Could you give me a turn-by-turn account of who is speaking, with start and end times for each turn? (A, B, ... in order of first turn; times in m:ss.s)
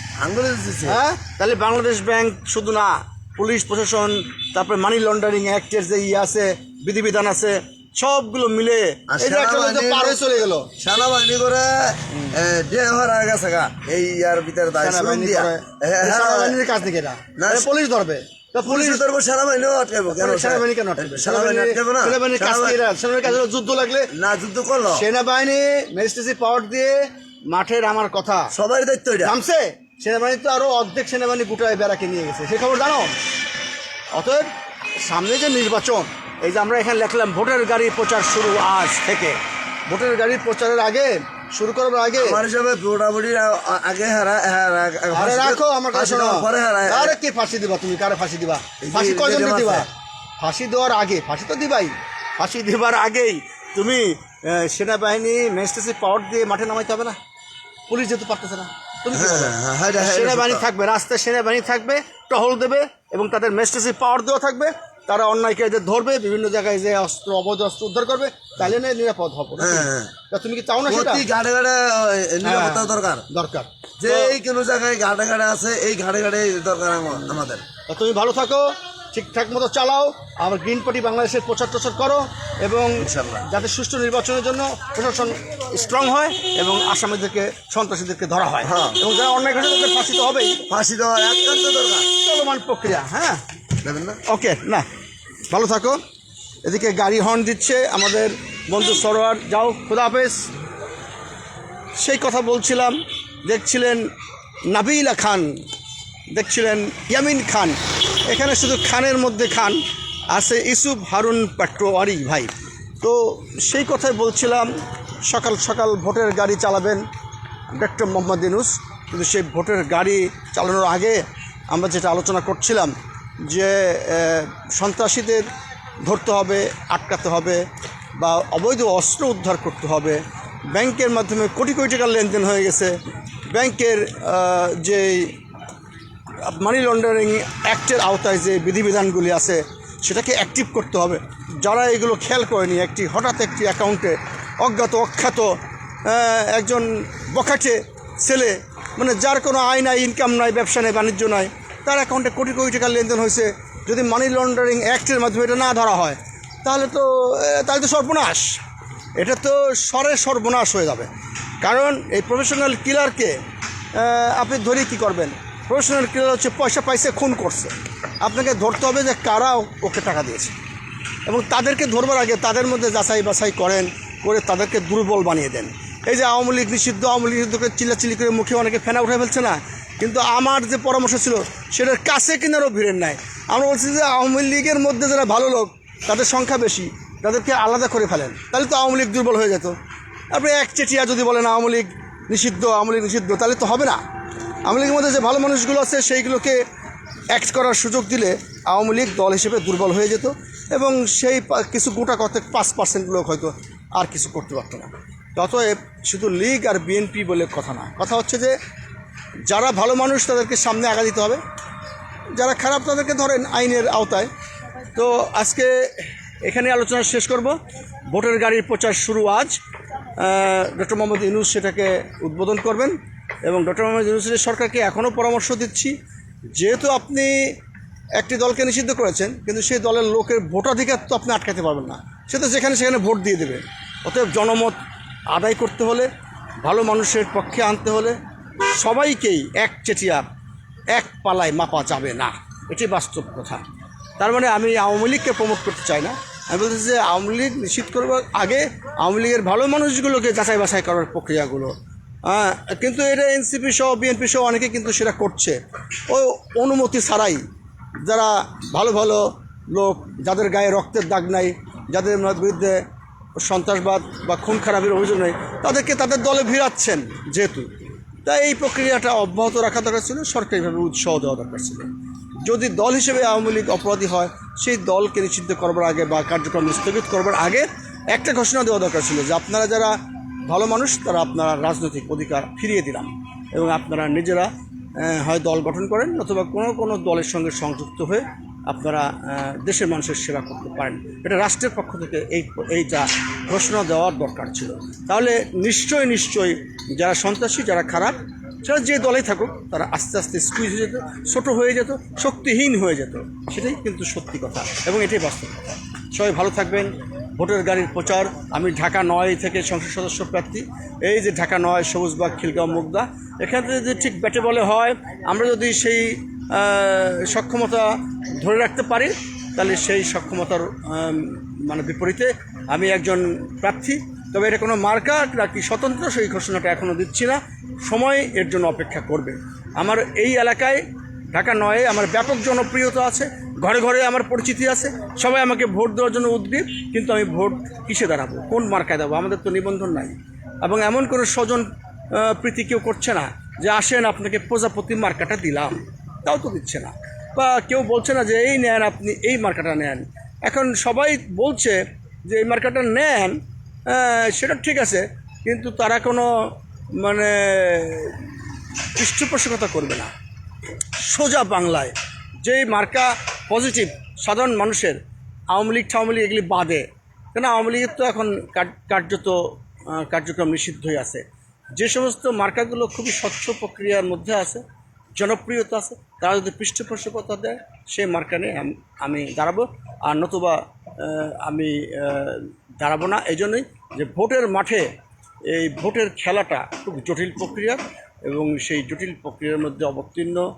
0:00.2-0:01.0 A
0:00.8-0:10.7 B
0:09.1-0:10.2 A
0:10.8-0:16.6 A
0:12.1-0:12.4 B
0:14.8-0:19.0 B
0:17.4-0:17.7 A
0:18.6-0:22.8 A
0:20.1-0:24.1 B
0:24.1-0:25.0 A
0:24.9-0:28.5 B
0:28.5-0:29.4 A
0:29.2-0:33.1 B
0:34.1-0:34.5 B
0:35.0-0:42.4 B
0:42.2-0:47.2 A
0:45.1-0:49.9 B
0:48.8-0:49.9 A
0:50.4-0:57.2 B
0:57.9-1:11.2 B
0:59.1-1:00.6 A
1:09.6-1:10.1 A
1:10.8-1:13.2 A
1:12.4-1:14.4 B
1:14.0-1:17.6 A
1:17.9-1:30.6 B
1:23.0-1:23.4 A
1:28.6-1:29.0 A
1:30.7-1:32.1 A
1:32.2-1:33.4 B
1:33.8-1:34.2 A
1:34.3-1:34.9 B
1:35.5-1:36.0 B
1:36.6-1:40.4 B
1:42.0-1:44.0 B
1:44.7-1:45.6 B
1:46.3-1:47.8 B
1:48.3-1:49.8 B
1:50.3-1:54.7 B
1:55.2-1:57.0 B
1:57.8-2:02.9 B
2:03.5-2:05.5 B
2:06.0-2:07.6 B
2:08.2-2:10.2 B
2:10.7-2:13.0 B
2:13.5-2:15.3 B
2:16.4-2:25.5 B
2:26.0-2:38.6 B
2:39.2-2:41.1 B
2:41.6-2:43.4 B
2:44.0-2:50.6 B
2:51.2-3:09.8 B
3:10.3-3:14.0 B
3:14.7-3:16.6 B
3:17.3-3:28.6 B
3:29.5-3:31.4 B
3:32.4-3:34.3 B
3:35.0-3:39.6 B
3:40.2-3:46.0 B
3:46.5-3:47.5 B
3:48.2-3:54.8 B
3:55.3-3:56.1 B
3:56.6-3:58.2 B
3:58.8-4:00.2 B
4:00.9-4:03.6 B
4:04.2-4:11.7 B
4:12.2-4:17.4 B
4:18.0-4:22.8 B
4:23.4-4:27.7 B
4:28.2-4:31.9 B
4:32.4-4:40.0 B
4:40.5-5:58.2 B
5:59.0-6:00.1 B
6:01.0-6:05.0 B
6:05.5-6:11.2 B
6:11.8-6:14.6 B
6:15.2-6:24.9 B
6:25.5-6:30.4 B